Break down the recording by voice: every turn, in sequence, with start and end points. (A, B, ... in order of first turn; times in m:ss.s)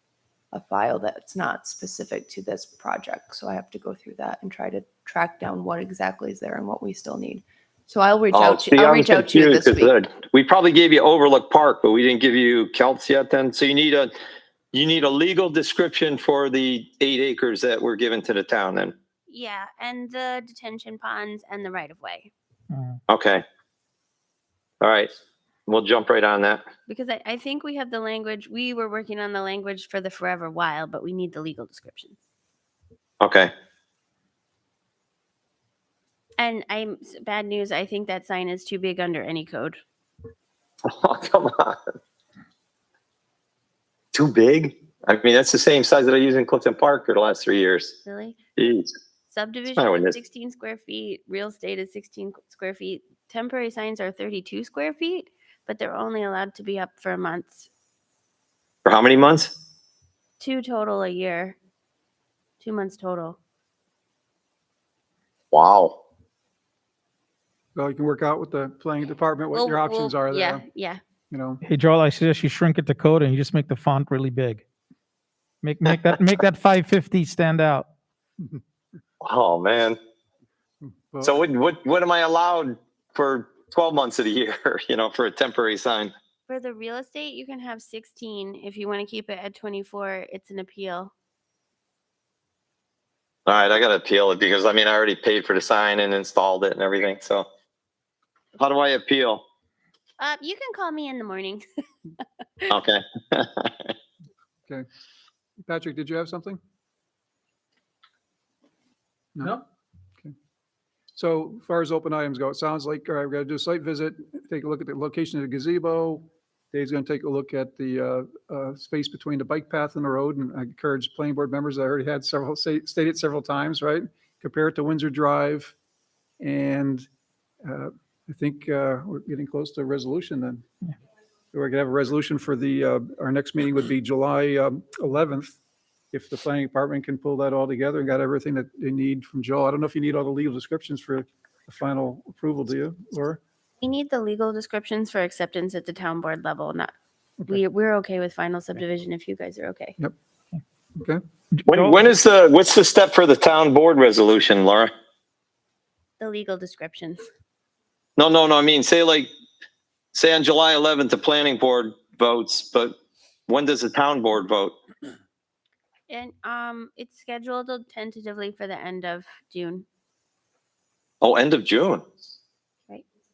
0:00.5-0:10.0 A
0:08.3-0:14.1 B
0:14.7-0:19.0 B
0:19.3-0:22.3 C
0:22.7-0:23.0 D
0:23.1-0:23.4 B
0:24.8-0:25.1 B
0:25.7-0:26.6 B
0:26.9-0:32.2 C
0:33.2-0:33.5 B
0:36.4-0:39.8 C
0:40.9-0:41.9 B
0:44.1-0:48.0 B
0:48.0-0:48.4 C
0:48.6-0:48.9 B
0:49.3-0:57.7 C
0:49.7-0:50.2 B
0:58.8-0:59.5 B
1:00.4-1:01.6 C
1:02.6-1:03.4 C
1:05.5-1:06.0 B
1:07.8-1:10.7 E
1:09.5-1:11.0 C
1:11.3-1:11.6 E
1:11.6-1:14.6 D
1:15.6-1:17.9 D
1:15.8-1:16.4 B
1:19.2-1:20.0 B
1:20.8-1:21.4 E
1:21.2-1:26.1 B
1:26.5-1:31.1 C
1:33.5-1:37.5 B
1:38.6-1:39.4 B
1:40.2-1:41.6 C
1:42.7-1:43.9 B
1:45.7-1:46.6 E
1:49.4-1:49.6 E
1:51.1-2:05.8 E
2:06.4-2:07.1 E
2:07.6-2:10.6 E
2:11.5-2:15.6 E
2:16.1-2:23.4 E
2:23.8-2:26.9 C
2:27.5-2:30.0 C
2:31.0-2:31.2 E
2:31.6-2:32.0 D
2:31.7-2:34.9 B
2:36.2-2:37.2 C
2:38.2-2:39.3 B
2:40.1-2:43.0 B
2:43.5-2:44.8 B
2:46.1-2:49.9 C
2:51.2-2:52.0 B